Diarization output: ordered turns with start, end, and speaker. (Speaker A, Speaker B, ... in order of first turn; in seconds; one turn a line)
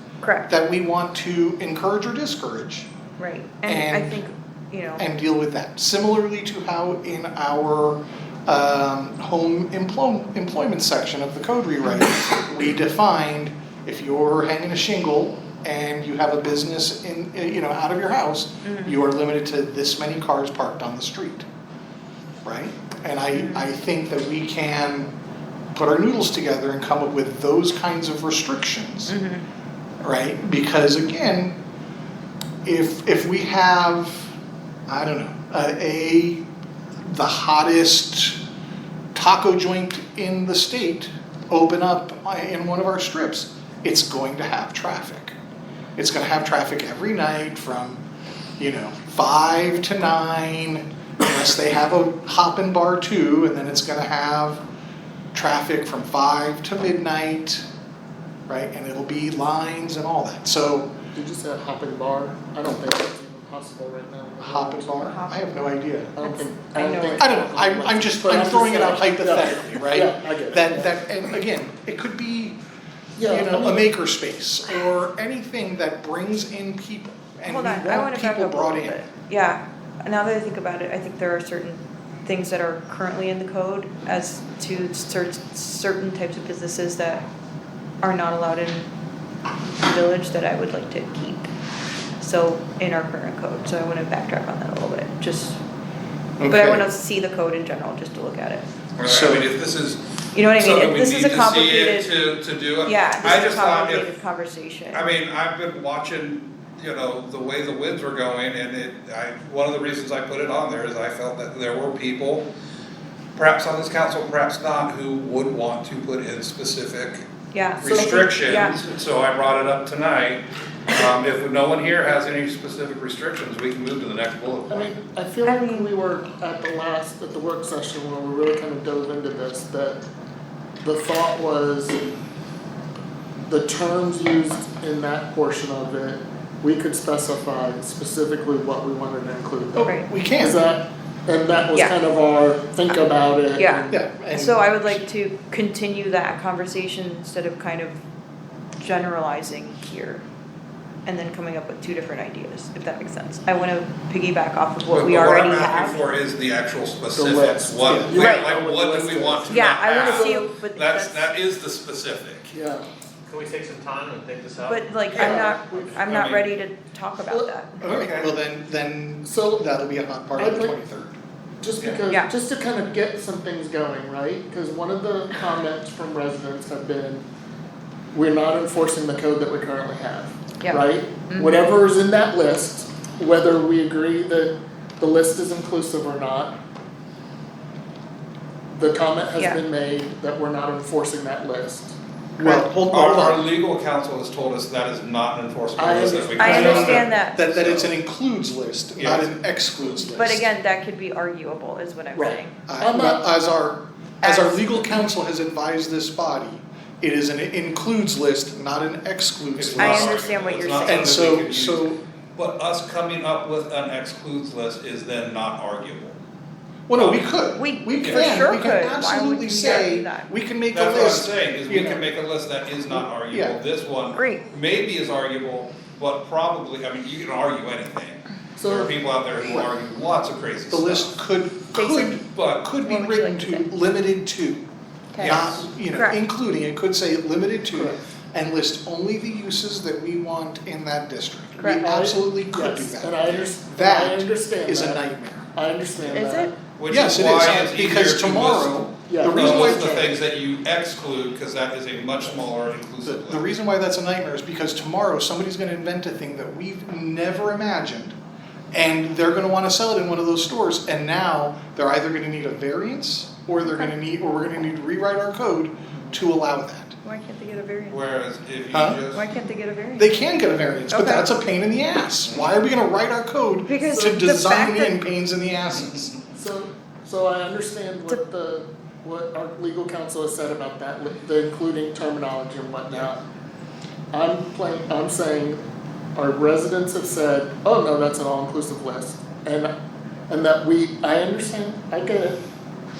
Speaker A: 0.2-0.5
Speaker B: 0.5-2.9
Speaker A: 3.2-5.0
Speaker B: 3.7-4.2
Speaker B: 5.0-21.5
Speaker A: 18.6-19.0
Speaker B: 22.4-25.1
Speaker A: 23.3-23.7
Speaker B: 25.7-29.1
Speaker A: 29.1-29.5
Speaker B: 30.0-31.6
Speaker B: 32.6-34.3
Speaker B: 34.9-36.5
Speaker B: 37.0-38.4
Speaker B: 39.1-45.4
Speaker B: 46.0-48.0
Speaker B: 48.6-54.6
Speaker B: 55.3-57.6
Speaker B: 58.5-60.9
Speaker C: 61.1-65.1
Speaker B: 64.4-66.1
Speaker A: 65.0-67.4
Speaker C: 66.2-71.0
Speaker B: 67.2-72.6
Speaker C: 73.2-73.9
Speaker B: 73.2-79.0
Speaker A: 77.5-87.2
Speaker A: 88.0-88.9
Speaker A: 89.8-91.5
Speaker A: 92.2-95.6
Speaker B: 96.4-96.9
Speaker A: 96.4-98.7
Speaker D: 99.0-100.0
Speaker B: 99.0-99.5
Speaker A: 100.3-102.2
Speaker D: 100.6-104.1
Speaker A: 102.8-105.1
Speaker D: 104.9-112.5
Speaker D: 113.4-117.2
Speaker A: 117.5-118.8
Speaker D: 117.8-124.9
Speaker C: 124.7-130.0
Speaker A: 125.4-125.9
Speaker C: 130.8-132.0
Speaker C: 133.4-144.0
Speaker B: 139.8-140.6
Speaker A: 143.6-148.0
Speaker B: 143.9-145.0
Speaker A: 148.8-150.2
Speaker A: 151.1-156.1
Speaker D: 154.9-162.5
Speaker C: 157.1-160.4
Speaker B: 157.9-158.1
Speaker A: 158.2-158.5
Speaker A: 159.5-161.3
Speaker C: 162.5-162.9
Speaker E: 163.3-166.2
Speaker A: 164.7-167.8
Speaker C: 165.2-165.9
Speaker D: 166.0-166.5
Speaker C: 167.2-167.5
Speaker D: 167.8-168.3
Speaker B: 167.8-171.1
Speaker C: 169.2-169.7
Speaker C: 170.4-170.8
Speaker C: 171.6-177.2
Speaker C: 178.1-186.6
Speaker A: 180.6-181.7
Speaker C: 188.7-192.7
Speaker B: 192.4-193.5
Speaker D: 192.9-197.9
Speaker C: 195.8-197.0
Speaker A: 196.4-197.4
Speaker B: 196.5-200.5
Speaker D: 199.0-199.3
Speaker A: 200.2-202.6
Speaker C: 202.2-203.2
Speaker B: 202.7-210.2
Speaker A: 204.2-205.1
Speaker D: 209.6-216.2
Speaker A: 209.8-211.4
Speaker B: 210.8-212.0
Speaker B: 216.9-222.0
Speaker D: 217.0-217.2
Speaker A: 217.6-220.3
Speaker D: 218.0-218.3
Speaker D: 220.7-231.1
Speaker B: 222.9-223.6
Speaker A: 224.1-224.5
Speaker C: 228.6-228.9
Speaker B: 229.4-229.7
Speaker B: 230.7-234.6
Speaker A: 231.7-232.2
Speaker D: 232.3-232.7
Speaker A: 232.8-233.7
Speaker A: 235.1-235.4
Speaker D: 235.2-235.7
Speaker B: 235.2-245.5
Speaker A: 235.9-236.2
Speaker C: 237.7-238.0
Speaker A: 241.6-242.1
Speaker C: 241.8-246.6
Speaker A: 246.1-246.5
Speaker D: 246.8-253.4
Speaker B: 246.9-249.9
Speaker C: 249.1-250.1
Speaker B: 253.1-258.1
Speaker B: 258.7-267.0
Speaker A: 267.0-268.0
Speaker D: 267.9-269.3
Speaker B: 268.7-269.0
Speaker A: 269.1-270.2
Speaker B: 270.0-276.1
Speaker A: 270.9-271.4
Speaker A: 273.7-275.0
Speaker C: 276.3-283.2
Speaker C: 284.1-285.6
Speaker C: 286.2-289.7
Speaker C: 290.3-292.4